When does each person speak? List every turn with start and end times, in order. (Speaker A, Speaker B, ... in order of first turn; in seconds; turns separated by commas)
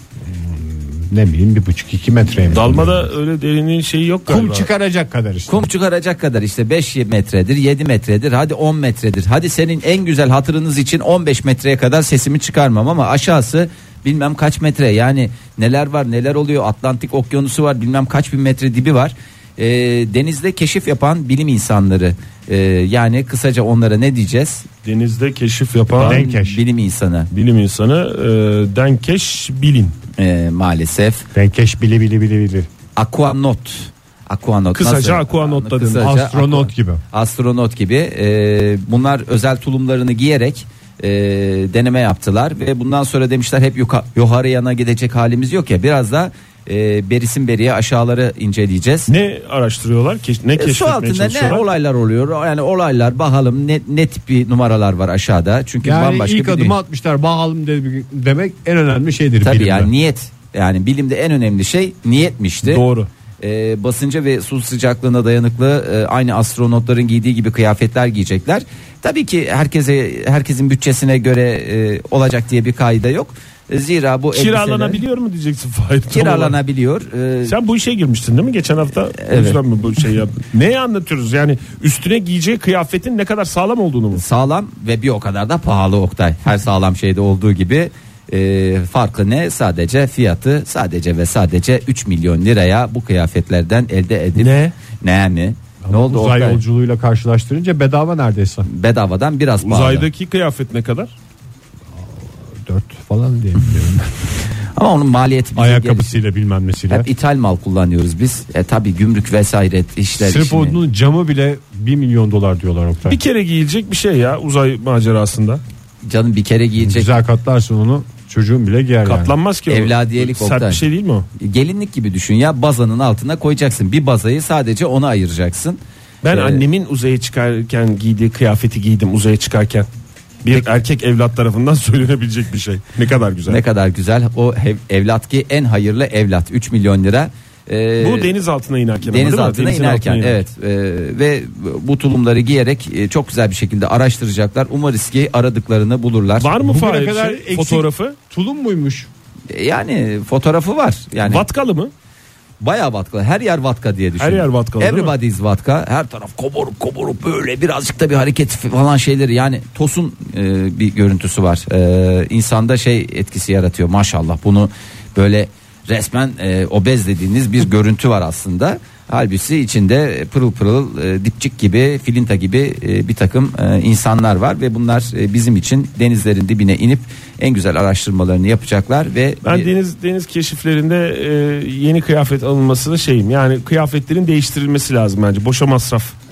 Speaker A: 0.2-3.1, Speaker B: 2.5-4.7, Speaker A: 4.3-5.7, Speaker C: 5.5-24.6, Speaker B: 24.8-26.2, Speaker C: 25.9-27.3, Speaker A: 26.0-26.6, Speaker B: 27.3-29.9, Speaker C: 30.2-31.3, Speaker A: 31.3-32.7, Speaker C: 33.0-49.1, Speaker B: 34.7-36.1, Speaker A: 36.0-37.0, Speaker B: 49.1-51.6, Speaker C: 50.6-56.7, Speaker A: 55.8-59.9, Speaker C: 59.4-62.8, Speaker B: 62.6-63.1, Speaker C: 63.4-75.0, Speaker B: 74.3-76.6, Speaker C: 76.1-77.5, Speaker B: 77.4-84.2, Speaker C: 79.2-79.6, Speaker C: 84.1-96.6, Speaker B: 94.3-94.7, Speaker A: 95.8-98.7, Speaker C: 98.6-100.0, Speaker B: 99.6-101.1, Speaker A: 101.9-104.3, Speaker C: 104.7-106.2, Speaker A: 105.5-107.1, Speaker C: 106.9-110.8, Speaker A: 110.2-113.2, Speaker B: 113.1-115.6, Speaker C: 116.0-117.1, Speaker A: 116.8-119.3, Speaker B: 119.0-121.3, Speaker C: 119.7-120.8, Speaker C: 121.4-126.6, Speaker B: 126.2-129.9, Speaker B: 130.4-133.6, Speaker C: 133.5-138.3, Speaker B: 138.0-140.4, Speaker C: 139.0-146.5, Speaker B: 146.4-148.2, Speaker A: 146.6-149.1, Speaker C: 149.5-151.4, Speaker B: 151.2-151.9, Speaker C: 152.6-179.7, Speaker B: 154.2-155.1, Speaker B: 179.4-186.1